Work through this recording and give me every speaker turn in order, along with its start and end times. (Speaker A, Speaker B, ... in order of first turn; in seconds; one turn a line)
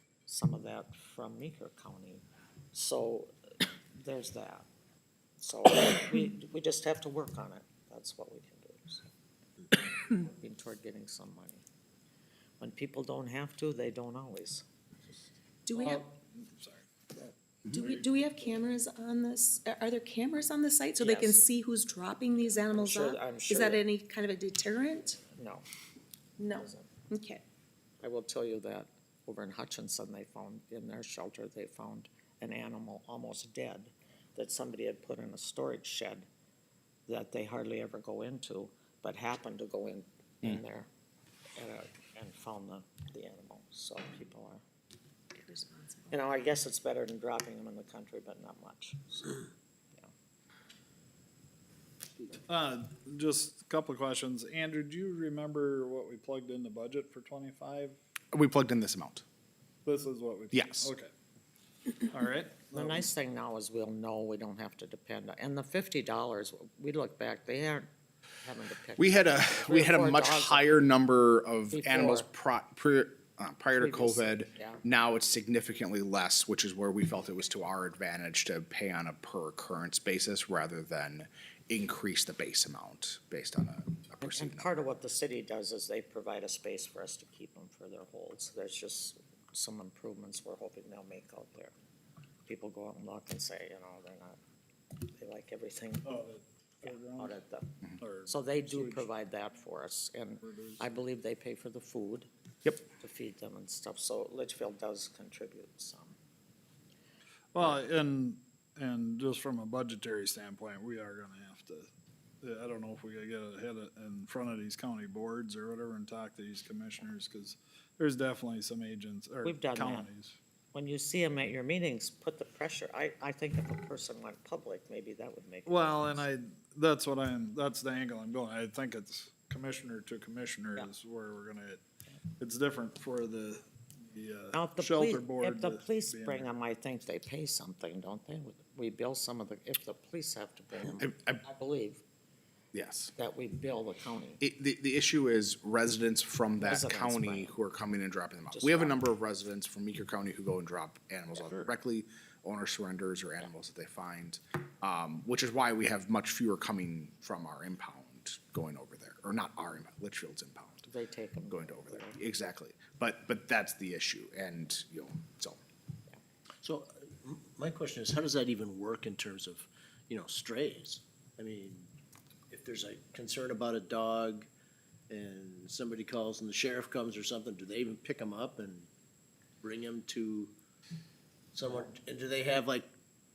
Speaker A: 0.2-3.3
Speaker A: 3.9-4.7
Speaker A: 5.4-9.0
Speaker A: 9.8-11.6
Speaker A: 12.6-14.6
Speaker B: 15.7-16.0
Speaker C: 15.8-18.6
Speaker B: 17.7-25.2
Speaker A: 21.0-21.4
Speaker A: 22.4-23.8
Speaker A: 25.1-25.6
Speaker B: 26.4-27.4
Speaker A: 26.5-26.9
Speaker A: 28.0-36.3
Speaker A: 37.1-40.9
Speaker A: 41.5-44.6
Speaker B: 45.4-46.1
Speaker A: 46.1-49.4
Speaker C: 52.3-58.0
Speaker D: 58.3-59.2
Speaker C: 59.8-61.1
Speaker D: 60.5-60.9
Speaker C: 62.1-63.1
Speaker A: 62.7-67.9
Speaker A: 68.4-70.8
Speaker D: 69.0-84.7
Speaker A: 71.7-72.3
Speaker A: 73.8-74.8
Speaker A: 84.2-91.7
Speaker A: 92.5-94.4
Speaker A: 95.1-96.1
Speaker C: 96.0-97.4
Speaker A: 96.8-97.7
Speaker C: 98.0-99.1
Speaker A: 98.3-102.3
Speaker C: 100.4-101.1
Speaker A: 102.9-106.2
Speaker C: 107.5-111.9
Speaker A: 107.6-107.8
Speaker C: 112.4-120.4
Speaker A: 119.4-120.1
Speaker A: 120.7-126.3
Speaker C: 125.7-131.8
Speaker C: 132.4-136.5
Speaker A: 134.5-142.0
Speaker D: 140.9-141.4
Speaker D: 142.7-143.1
Speaker A: 143.2-144.4
Speaker D: 144.4-160.9
Speaker A: 146.6-147.6
Speaker A: 148.5-149.0
Speaker A: 151.3-151.7
Speaker A: 160.9-162.2
Speaker D: 161.5-165.6
Speaker E: 166.6-171.9
Speaker E: 172.5-174.5
Speaker E: 175.1-178.9
Speaker E: 179.6-180.5
Speaker E: 181.5-182.9